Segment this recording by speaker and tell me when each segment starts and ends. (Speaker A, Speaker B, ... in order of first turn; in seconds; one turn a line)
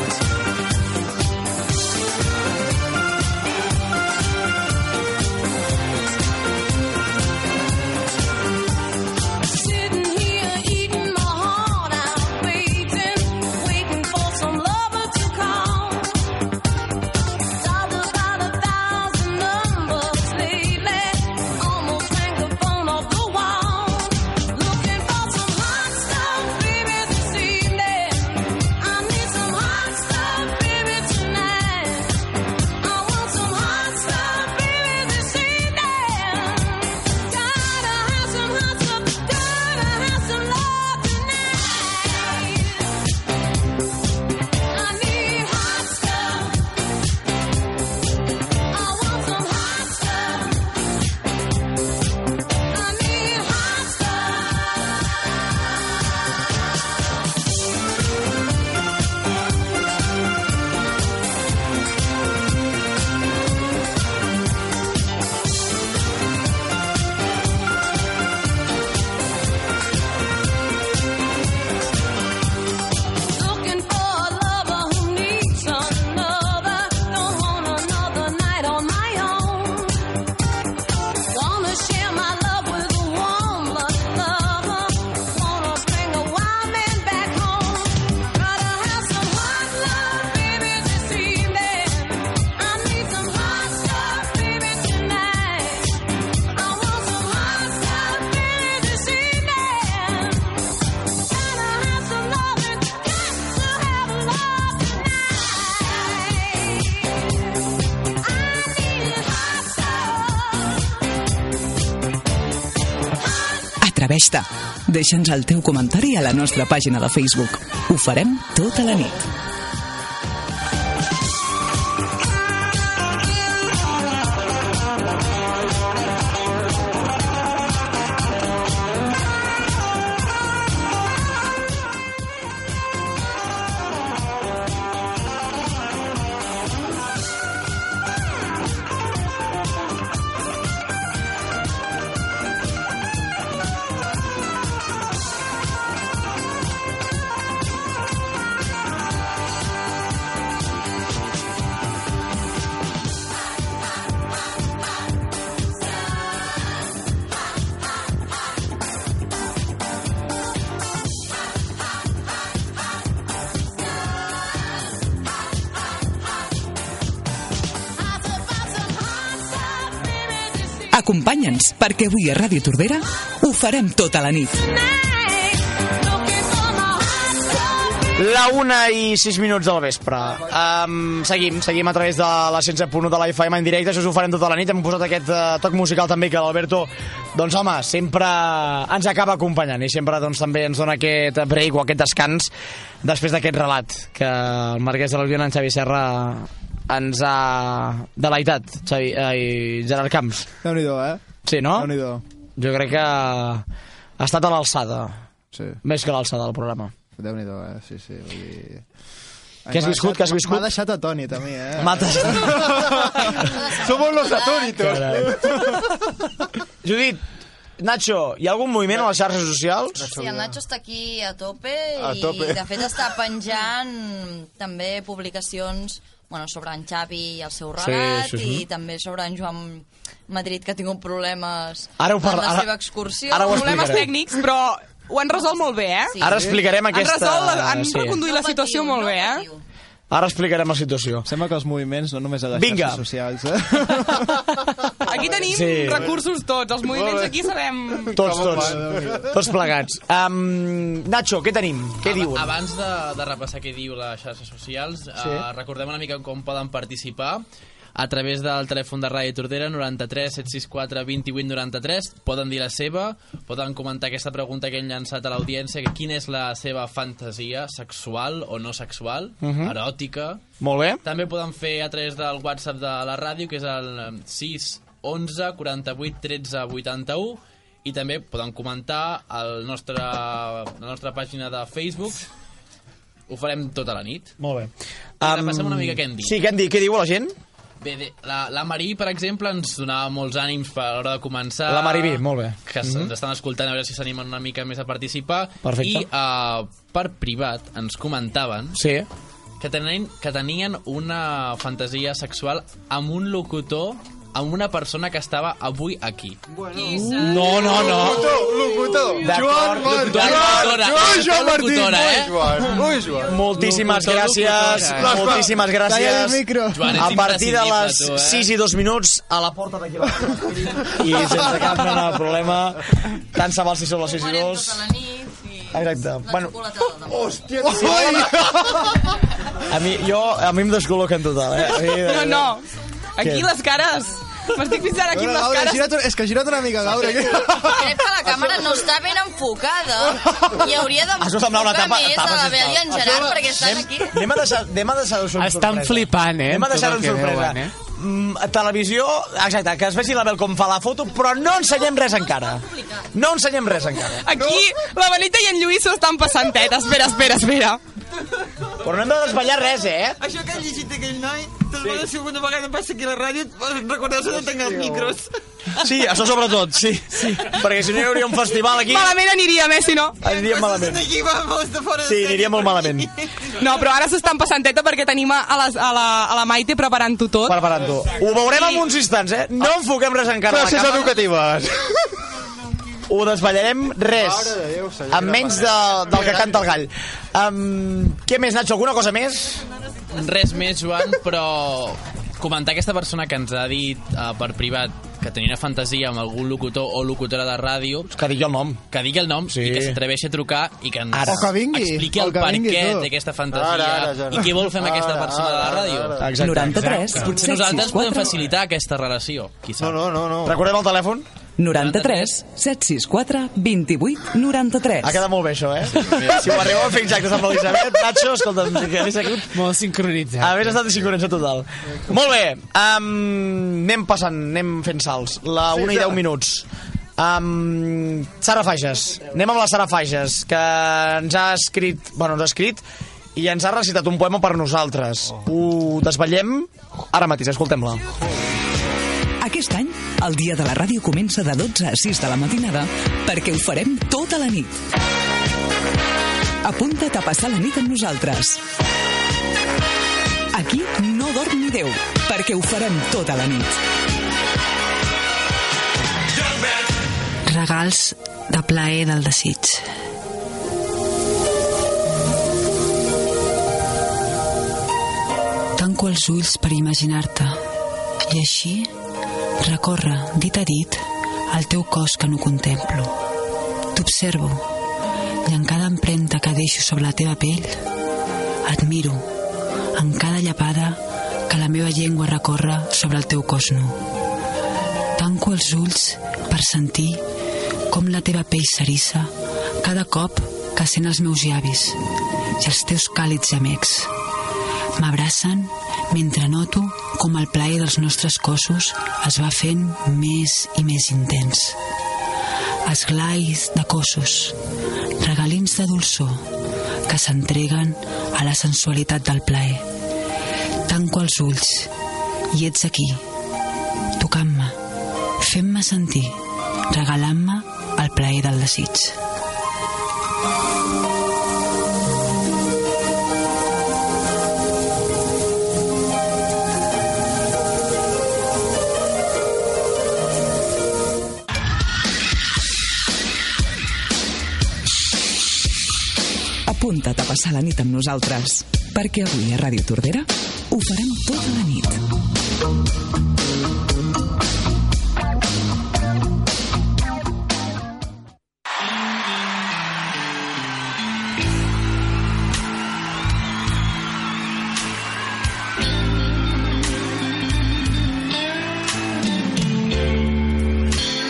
Speaker A: 9.4-16.3
Speaker A: 17.6-32.2
Speaker A: 32.8-43.0
Speaker A: 44.6-46.6
Speaker A: 48.7-50.6
Speaker A: 52.6-54.9
Speaker A: 73.3-80.1
Speaker A: 81.3-107.3
Speaker A: 108.2-110.8
Speaker B: 113.8-119.2
Speaker A: 168.0-170.9
Speaker B: 170.9-174.5
Speaker A: 174.5-178.0
Speaker C: 178.2-200.5
Speaker D: 200.6-202.2
Speaker C: 201.4-201.9
Speaker C: 202.6-203.6
Speaker C: 204.2-205.2
Speaker D: 205.5-205.8
Speaker C: 205.8-206.9
Speaker D: 207.2-208.8
Speaker D: 209.7-212.4
Speaker C: 209.7-210.7
Speaker C: 211.8-213.1
Speaker E: 212.2-215.9
Speaker F: 213.3-214.8
Speaker C: 214.8-215.8
Speaker C: 216.8-217.2
Speaker C: 217.8-220.1
Speaker E: 220.0-220.6
Speaker F: 220.0-234.1
Speaker E: 222.0-222.6
Speaker C: 227.8-228.6
Speaker C: 232.0-232.7
Speaker C: 233.3-234.1
Speaker G: 233.4-236.2
Speaker F: 236.1-236.5
Speaker C: 236.2-238.2
Speaker G: 236.8-239.4
Speaker F: 237.9-239.6
Speaker C: 240.1-241.3
Speaker D: 241.2-244.4
Speaker C: 242.5-243.0
Speaker G: 245.0-248.2
Speaker C: 245.4-246.1
Speaker E: 245.9-246.2
Speaker E: 246.8-247.3
Speaker E: 248.1-249.3
Speaker C: 248.1-252.5
Speaker H: 252.0-257.4
Speaker C: 255.2-255.4
Speaker H: 257.9-270.4
Speaker C: 269.4-269.8
Speaker C: 270.6-271.0
Speaker H: 271.0-282.2
Speaker H: 283.3-284.3
Speaker C: 284.4-287.3
Speaker H: 285.2-286.4
Speaker H: 287.8-298.8
Speaker C: 291.7-293.1
Speaker C: 295.6-296.1
Speaker C: 298.7-299.1
Speaker H: 299.6-308.3
Speaker E: 306.5-313.4
Speaker C: 307.1-308.6
Speaker C: 309.2-310.9
Speaker H: 309.6-312.6
Speaker D: 311.1-312.2
Speaker C: 313.2-324.9
Speaker I: 313.4-315.3
Speaker E: 314.8-315.6
Speaker D: 315.7-317.0
Speaker H: 316.7-318.5
Speaker F: 324.0-328.3
Speaker C: 325.7-326.6
Speaker E: 327.2-328.6
Speaker C: 327.6-328.7
Speaker C: 329.6-332.5
Speaker G: 331.9-332.6
Speaker G: 333.1-335.9
Speaker C: 333.2-333.5
Speaker D: 335.1-338.1
Speaker F: 337.1-344.2
Speaker C: 341.2-354.4
Speaker E: 342.9-343.6
Speaker I: 345.4-347.7
Speaker G: 354.2-357.8
Speaker C: 358.8-360.2
Speaker J: 360.2-365.3
Speaker E: 364.3-365.2
Speaker C: 365.8-369.1
Speaker G: 368.8-370.2
Speaker C: 370.2-371.0
Speaker J: 370.2-373.1
Speaker C: 372.0-373.1
Speaker G: 373.6-377.6
Speaker C: 377.4-381.2
Speaker G: 378.5-378.8
Speaker E: 380.5-381.9
Speaker C: 383.1-384.6
Speaker E: 384.1-386.5
Speaker C: 385.1-389.6
Speaker H: 390.1-398.1
Speaker C: 398.1-398.8
Speaker H: 398.9-410.2
Speaker C: 399.4-400.0
Speaker C: 401.1-401.5
Speaker D: 401.2-403.1
Speaker E: 403.5-406.6
Speaker C: 406.2-407.2
Speaker B: 406.4-408.3
Speaker E: 409.8-410.6
Speaker C: 410.4-411.2
Speaker B: 411.6-415.2
Speaker H: 411.7-412.3
Speaker C: 415.0-419.6
Speaker I: 419.5-420.8
Speaker C: 420.4-426.6
Speaker C: 427.2-432.8
Speaker C: 433.4-438.0
Speaker B: 439.4-444.8
Speaker B: 446.6-448.6
Speaker B: 450.5-453.8
Speaker K: 457.4-459.9
Speaker K: 465.8-467.6
Speaker K: 468.3-468.9
Speaker K: 469.6-473.1
Speaker K: 473.9-474.7
Speaker K: 475.4-477.8
Speaker K: 478.6-479.3
Speaker K: 479.9-484.0
Speaker K: 485.1-487.2
Speaker K: 487.9-492.0
Speaker K: 492.6-494.1
Speaker K: 495.0-501.8
Speaker K: 502.8-504.6
Speaker K: 505.2-506.5
Speaker K: 507.1-509.9
Speaker K: 510.9-511.9
Speaker K: 512.5-513.2
Speaker K: 514.2-514.8
Speaker K: 515.4-519.2
Speaker B: 536.6-542.0